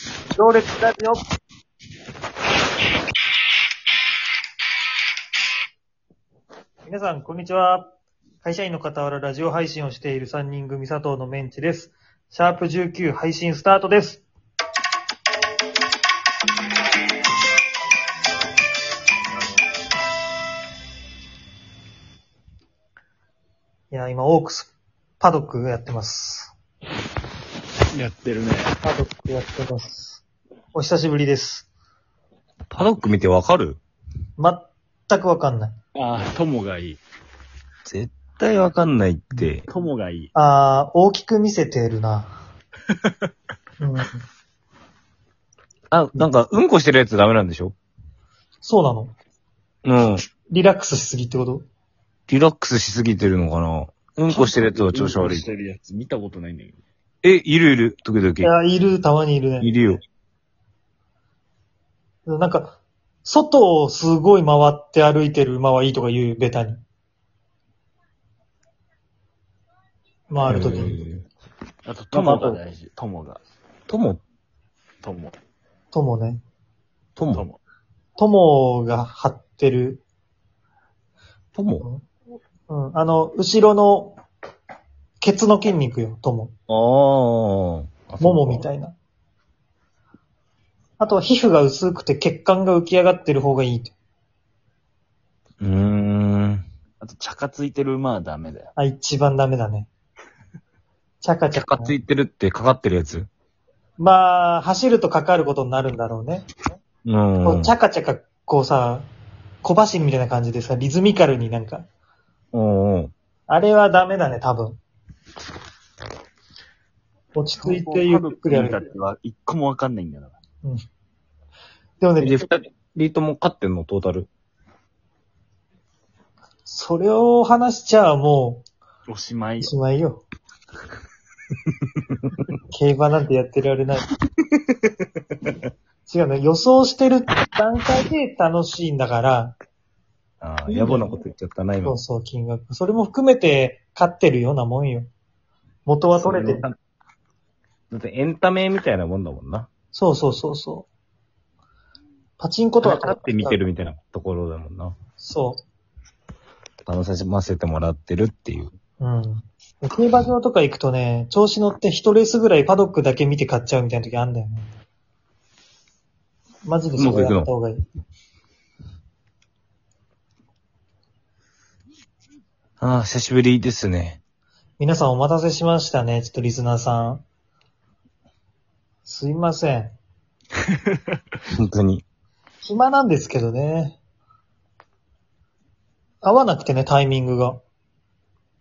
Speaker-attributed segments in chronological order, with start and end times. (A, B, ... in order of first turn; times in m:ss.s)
0:00.3-0:01.2 A
0:06.8-0:07.9 A
0:08.4-0:14.2 A
0:23.9-0:26.5 A
0:27.9-0:28.7 B
0:28.8-0:30.2 A
0:30.7-0:31.7 A
0:32.7-0:33.8 C
0:34.4-0:35.7 A
0:35.9-0:37.0 B
0:37.8-0:39.6 C
0:39.7-0:40.3 B
0:40.3-0:42.3 A
0:43.8-0:44.2 A
0:45.9-0:47.7 C
0:48.6-0:49.1 A
0:49.8-0:50.2 C
0:50.5-0:51.6 A
0:52.3-0:55.4 C
0:54.3-0:56.8 B
0:57.2-0:58.5 C
0:58.4-0:59.7 A
0:59.6-1:00.0 C
1:02.2-1:06.8 A
1:10.3-1:11.0 A
1:10.5-1:11.2 C
1:11.8-1:13.4 B
1:12.1-1:12.6 C
1:13.9-1:14.2 C
1:15.0-1:15.3 B
1:15.9-1:16.4 A
1:17.2-1:17.4 C
1:17.3-1:17.6 B
1:18.2-1:20.0 A
1:21.5-1:21.8 C
1:21.8-1:22.0 A
1:22.7-1:24.2 A
1:25.2-1:26.5 A
1:26.7-1:28.6 C
1:28.2-1:28.9 A
1:31.0-1:33.9 A
1:35.6-1:36.6 C
1:37.0-1:38.7 B
1:38.8-1:39.9 A
1:41.2-1:42.0 A
1:41.5-1:43.3 C
1:44.0-1:46.5 A
1:47.0-1:47.7 C
1:47.4-1:49.1 A
1:49.6-1:51.9 A
1:52.5-1:53.1 C
1:53.5-1:54.8 A
1:57.3-1:58.8 A
1:57.6-2:00.4 B
2:02.0-2:02.4 A
2:02.2-2:04.3 C
2:06.6-2:08.6 A
2:09.1-2:09.7 B
2:09.6-2:10.2 A
2:12.7-2:14.1 A
2:16.1-2:19.5 A
2:20.4-2:22.0 C
2:20.7-2:21.2 A
2:21.8-2:25.1 A
2:25.8-2:26.6 A
2:26.2-2:26.7 C
2:27.9-2:29.7 C
2:29.9-2:30.9 A
2:32.4-2:33.6 A
2:32.8-2:34.9 C
2:35.2-2:35.6 A
2:36.8-2:38.7 C
2:39.0-2:44.7 A
2:46.6-2:47.8 A
2:47.0-2:47.5 C
2:52.8-2:54.2 C
2:54.8-2:57.2 A
2:59.0-2:59.9 A
3:01.5-3:02.0 C
3:02.6-3:04.0 A
3:06.2-3:07.6 A